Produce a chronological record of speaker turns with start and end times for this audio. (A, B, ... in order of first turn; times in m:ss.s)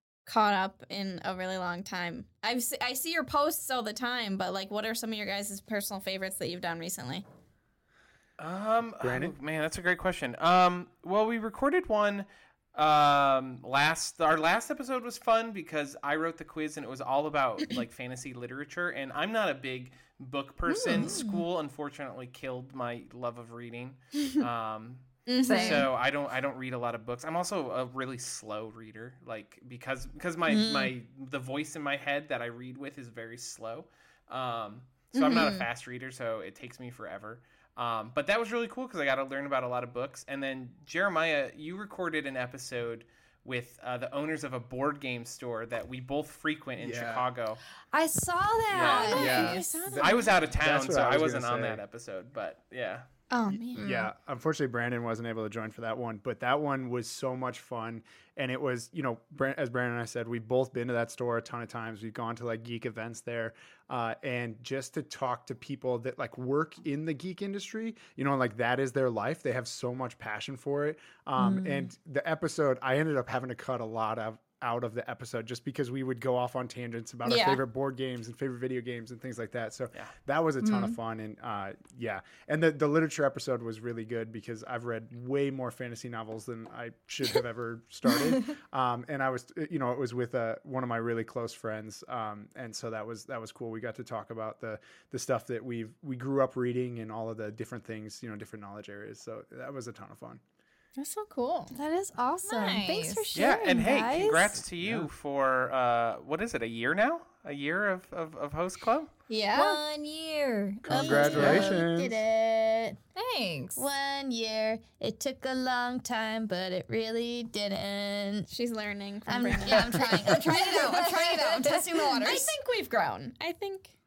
0:00.2-0:07.2 A
0:08.4-0:47.6 B
0:09.0-0:09.3 C
0:20.9-0:21.4 D
0:25.3-0:25.9 A
0:25.4-0:25.9 E
0:30.5-0:30.9 D
0:35.1-0:35.6 A
0:46.8-0:47.3 C
0:47.9-0:49.9 D
0:48.7-0:53.0 B
0:48.8-0:50.3 A
0:49.1-0:51.8 C
0:53.3-0:53.9 D
0:53.5-0:53.9 A
0:53.8-1:40.4 C
1:11.4-1:11.9 D
1:17.2-1:17.6 A
1:20.6-1:21.0 E
1:41.0-1:41.8 A
1:41.7-1:44.6 D
1:42.4-1:43.2 E
1:43.3-1:49.1 B
1:44.8-1:45.1 C
1:49.3-1:49.8 A
1:49.5-1:51.8 E
1:50.9-1:53.0 D
1:50.9-1:52.2 C
1:51.3-1:51.8 B
1:53.1-1:53.8 E
1:53.8-1:58.5 D
1:58.5-2:01.1 A
1:59.3-2:02.6 D
2:00.3-2:02.2 E
2:02.2-2:03.9 A